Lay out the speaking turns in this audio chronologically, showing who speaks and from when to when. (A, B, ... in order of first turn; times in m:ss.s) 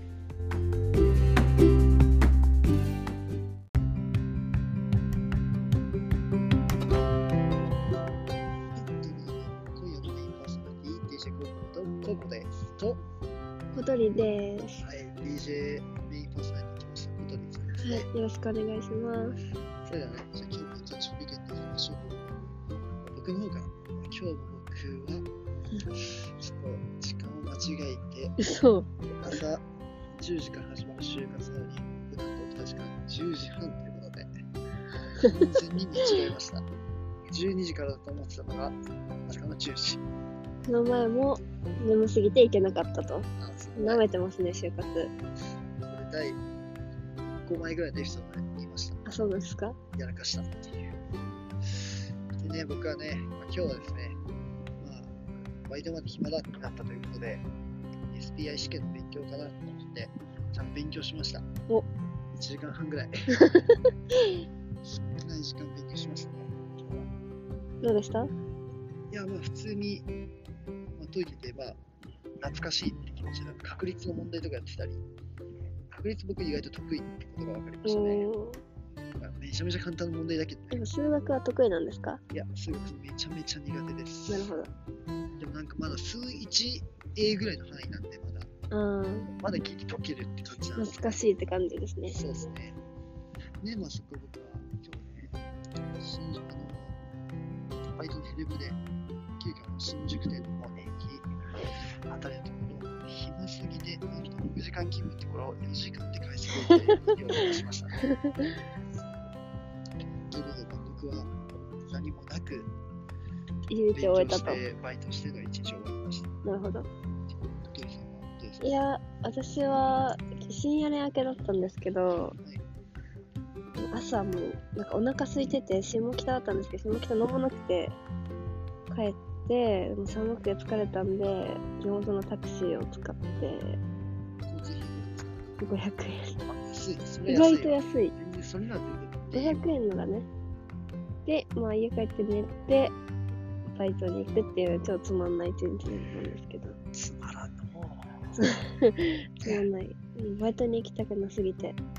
0:08.7-0:13.0 A
0:13.7-0:14.8 B
0:14.8-0:18.1 A
0:17.8-0:19.4 B
0:19.8-0:22.4 A
0:23.0-0:25.3 A
0:25.9-0:28.4 A
0:28.4-0:29.4 B
0:29.2-0:29.6 A
0:30.1-0:34.3 A
0:35.2-0:36.7 A
0:37.3-0:40.0 A
0:40.7-0:45.1 B
0:43.4-0:44.0 A
0:45.9-0:46.4 A
0:47.4-0:49.0 A
0:49.1-0:49.8 B
0:50.0-0:50.9 A
0:51.7-0:54.2 A
0:54.8-0:55.2 A
0:55.7-0:57.4 A
0:58.1-1:01.5 A
1:02.4-1:03.1 A
1:04.8-1:07.1 A
1:07.8-1:08.3 B
1:09.1-1:10.1 A
1:11.0-1:11.8 A
1:12.4-1:15.0 A
1:15.9-1:18.3 A
1:17.8-1:18.6 B
1:19.2-1:20.9 A
1:20.7-1:22.2 B
1:22.3-1:24.5 A
1:24.3-1:24.7 B
1:25.4-1:28.5 A
1:28.7-1:29.3 B
1:29.4-1:31.1 A
1:30.8-1:32.2 B
1:32.1-1:32.8 A
1:33.6-1:35.4 A
1:36.0-1:37.0 A
1:38.0-1:38.8 A
1:39.4-1:41.3 A
1:42.1-1:48.0 A
1:48.1-1:48.4 B
1:50.3-1:51.3 A
1:51.9-1:52.7 A
1:53.7-1:54.6 B
1:53.9-1:56.3 A
1:56.4-1:56.9 B
1:57.3-1:58.8 A
1:58.6-2:02.4 B
2:02.2-2:02.6 A
2:03.8-2:08.0 B
2:08.9-2:13.8 B
2:14.5-2:15.4 A
2:15.6-2:16.4 B
2:16.4-2:19.7 A
2:17.3-2:18.1 B
2:19.3-2:20.3 B
2:21.3-2:23.0 B
2:23.7-2:26.8 B
2:26.9-2:28.4 A
2:28.4-2:31.8 B
2:29.4-2:29.7 A